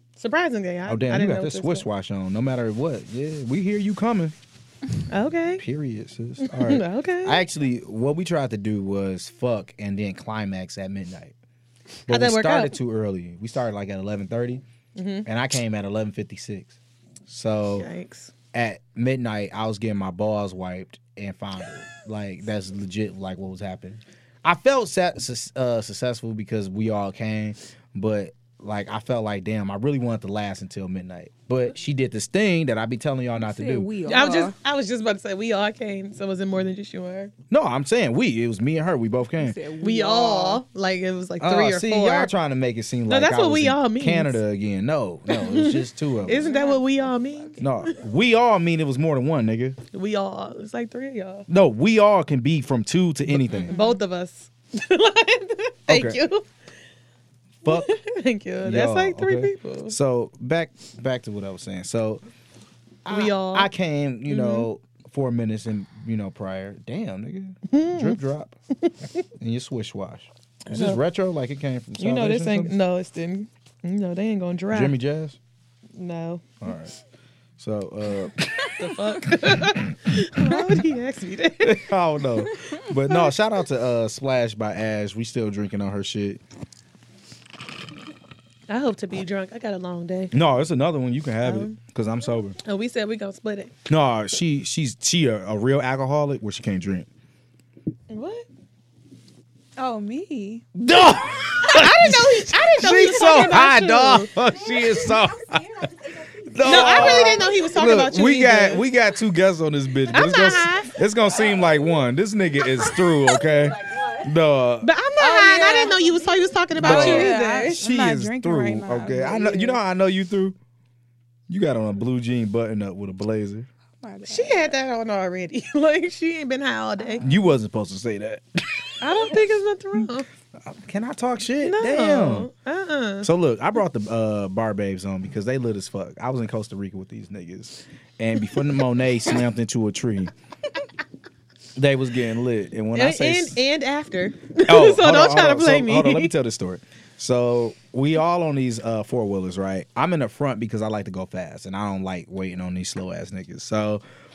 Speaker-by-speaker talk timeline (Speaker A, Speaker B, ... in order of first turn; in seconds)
Speaker A: 0.2-1.9, 5.1-5.6, 6.4-7.5, 12.1-12.8, 15.0-15.3, 17.8-18.3, 34.1-37.3, 39.8-42.3, 43.1-44.4, 45.3-47.9, 49.9-51.5, 53.6-56.5, 57.6-60.0, 63.1-63.7, 64.3-64.7, 67.7-68.2, 70.7-71.0, 72.0-75.0, 76.0-76.5, 78.8-81.9, 88.7-90.3, 91.4-91.8, 92.7-93.7, 98.1-98.5, 101.7-104.3, 106.6-108.8, 110.1-111.0, 114.8-117.8, 124.3-127.2, 129.0-130.3, 131.6-133.3, 142.9-146.3
Speaker B: 0.9-4.3, 5.6-11.3, 12.1-14.6, 15.2-16.8, 17.3-17.9, 18.5-33.9, 37.5-39.6, 41.4-46.5, 47.6-49.8, 51.5-53.7, 55.9-56.2, 57.6-57.9, 58.6-62.2, 63.0-68.5, 69.4-72.8, 74.7-75.4, 76.6-77.0, 77.6-78.7, 79.4-80.2, 81.6-86.4, 90.3-92.6, 93.9-97.1, 100.8-105.9, 106.5-114.9, 116.8-120.6, 121.5-123.7, 127.2-129.3, 130.6-132.5, 133.2-140.3, 141.8-143.6, 144.7-154.0
Speaker C: 33.4-34.6, 39.4-40.6, 46.3-47.7, 53.7-54.0, 99.8-100.7, 115.2-116.0, 116.8-119.8, 124.0-124.8
Speaker D: 104.5-107.8, 110.6-112.0, 112.6-114.4, 115.8-116.8